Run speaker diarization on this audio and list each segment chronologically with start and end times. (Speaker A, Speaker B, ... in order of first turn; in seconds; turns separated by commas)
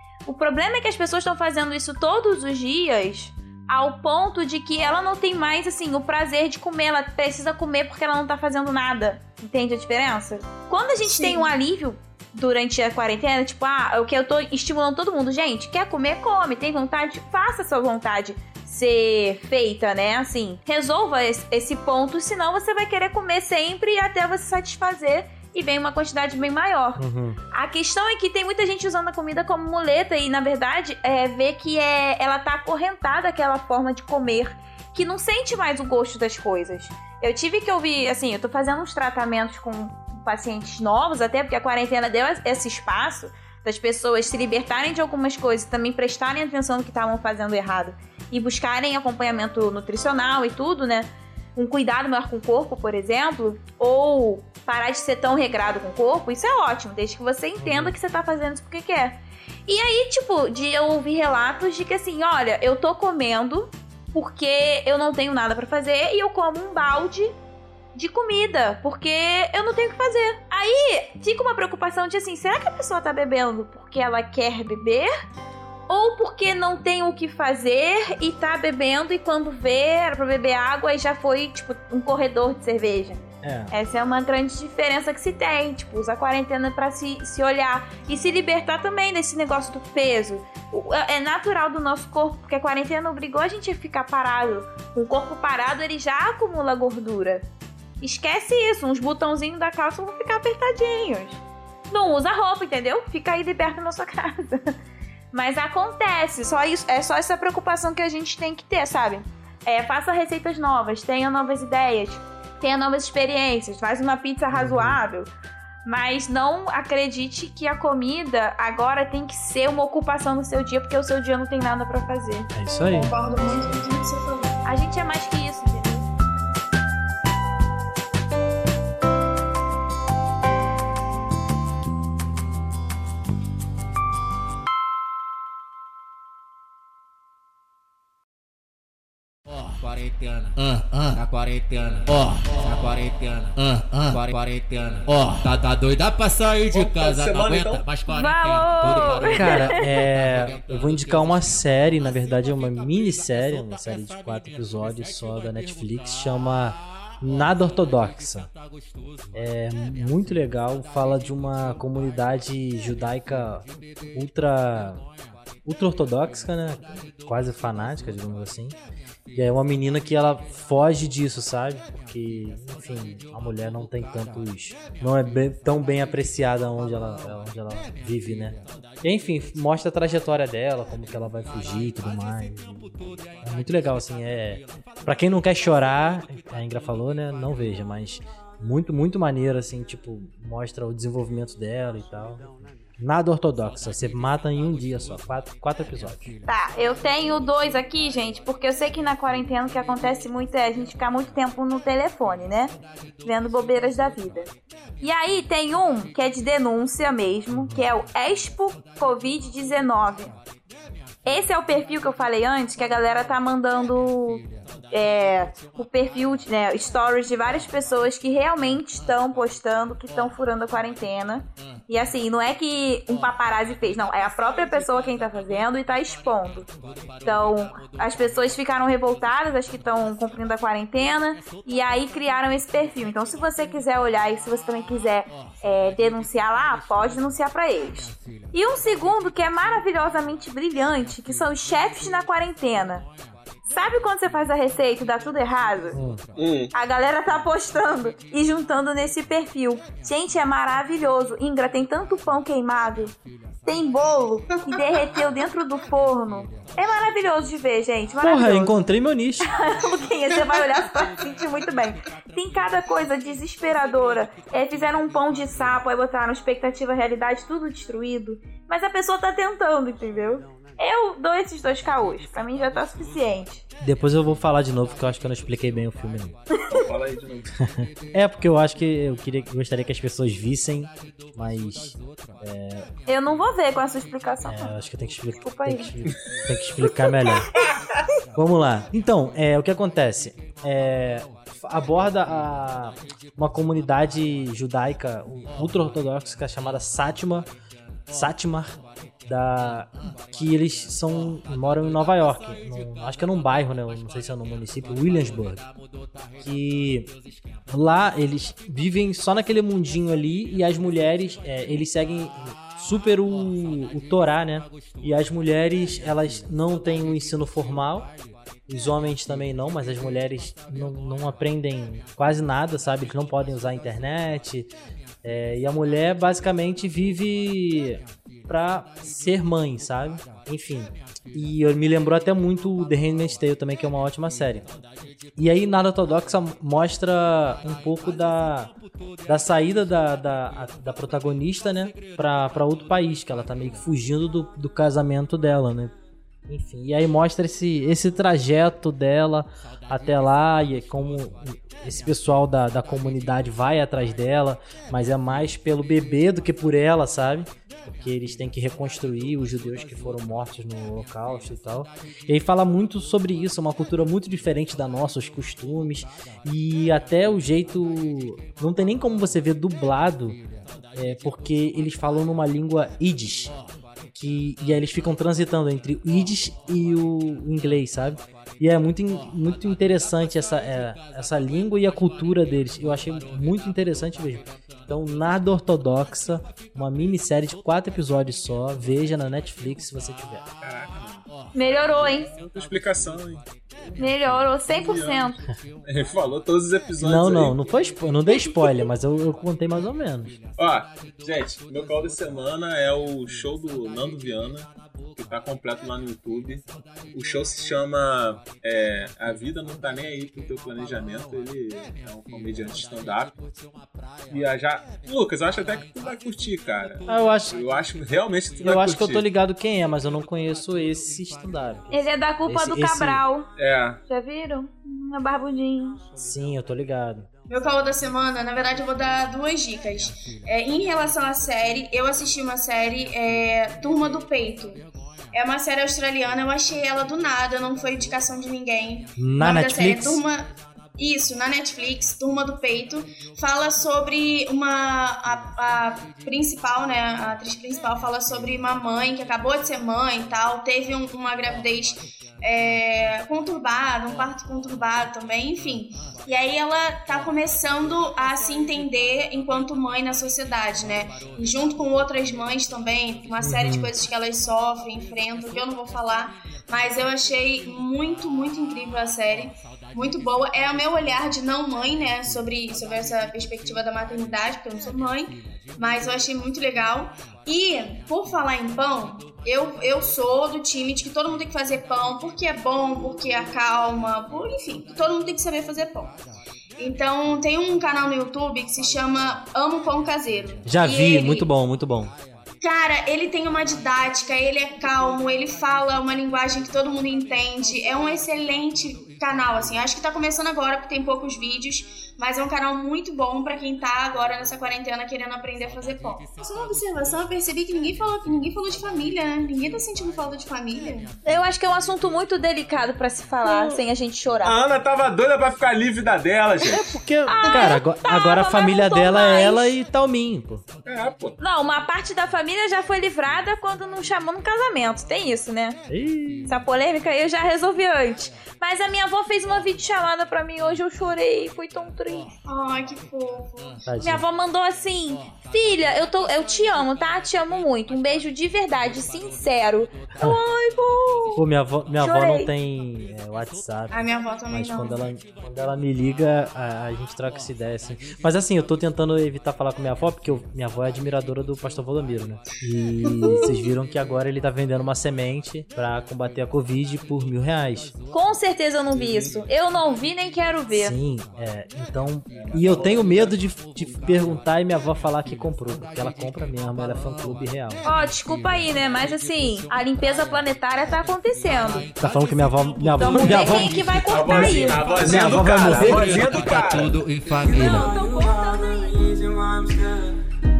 Speaker A: 0.2-27.0, Speaker B: 11.0-11.5, Speaker C: 26.9-27.4, Speaker A: 27.5-67.3, Speaker C: 57.6-58.0, Speaker A: 67.9-75.1, Speaker A: 75.9-83.2, Speaker C: 83.4-83.7, Speaker A: 83.7-97.4, Speaker A: 98.0-104.7, Speaker A: 105.3-115.3, Speaker C: 114.5-115.0, Speaker A: 115.8-122.5, Speaker C: 122.5-123.1, Speaker B: 122.9-124.5, Speaker A: 124.6-126.1, Speaker D: 139.5-150.5, Speaker E: 146.7-147.8, Speaker A: 148.1-149.9, Speaker C: 149.3-158.5, Speaker D: 151.2-151.6, Speaker C: 159.3-165.0, Speaker C: 165.6-168.8, Speaker C: 169.3-196.3, Speaker A: 196.5-202.7, Speaker A: 203.2-210.3, Speaker C: 207.5-207.8, Speaker A: 211.2-226.7, Speaker A: 227.2-243.1, Speaker A: 243.7-246.0, Speaker C: 245.9-246.2, Speaker E: 246.3-246.7, Speaker A: 246.7-253.1, Speaker A: 253.7-258.7, Speaker C: 258.2-259.5, Speaker A: 259.4-273.6, Speaker B: 260.3-260.8, Speaker C: 273.8-276.4, Speaker A: 276.5-276.9, Speaker E: 276.7-277.5, Speaker C: 277.6-282.9, Speaker A: 283.1-284.7, Speaker C: 284.4-287.6, Speaker A: 285.4-285.9, Speaker A: 286.8-287.8, Speaker C: 288.3-297.5, Speaker C: 298.1-305.6, Speaker C: 306.4-307.1, Speaker C: 307.7-318.1, Speaker C: 318.7-324.7, Speaker C: 325.2-334.7, Speaker C: 335.4-338.7, Speaker C: 339.3-345.9, Speaker C: 346.5-370.4, Speaker C: 370.9-373.5, Speaker C: 374.1-390.4, Speaker E: 390.6-391.2, Speaker A: 391.5-392.3, Speaker E: 392.3-395.3, Speaker A: 394.0-395.4, Speaker E: 395.8-397.6, Speaker C: 397.0-400.4, Speaker E: 400.6-413.3, Speaker E: 414.3-419.2, Speaker C: 417.1-417.6, Speaker C: 418.6-423.2, Speaker A: 421.9-423.5, Speaker E: 423.6-424.0, Speaker A: 424.1-426.0, Speaker C: 426.2-427.3, Speaker B: 427.5-486.2, Speaker C: 439.1-440.2, Speaker C: 463.4-463.9, Speaker B: 486.8-491.5, Speaker C: 490.6-492.1, Speaker B: 492.6-511.1, Speaker A: 511.2-514.6, Speaker C: 513.4-513.8, Speaker E: 514.4-516.9, Speaker C: 516.6-520.6, Speaker A: 517.2-519.7, Speaker E: 520.8-521.4, Speaker A: 521.4-525.8, Speaker C: 525.9-526.6, Speaker A: 526.5-532.3, Speaker B: 532.5-533.8, Speaker C: 533.8-534.2, Speaker A: 534.0-541.4, Speaker C: 541.4-557.9, Speaker A: 542.0-542.5, Speaker B: 543.9-545.0, Speaker B: 553.0-553.6, Speaker A: 558.1-561.0, Speaker E: 558.9-559.4, Speaker C: 560.7-567.9, Speaker E: 562.3-563.4, Speaker A: 567.8-571.9, Speaker D: 571.5-574.0, Speaker C: 571.9-576.3, Speaker A: 572.8-575.7, Speaker E: 573.2-577.0, Speaker D: 575.2-578.2, Speaker A: 577.5-579.0, Speaker D: 578.9-579.8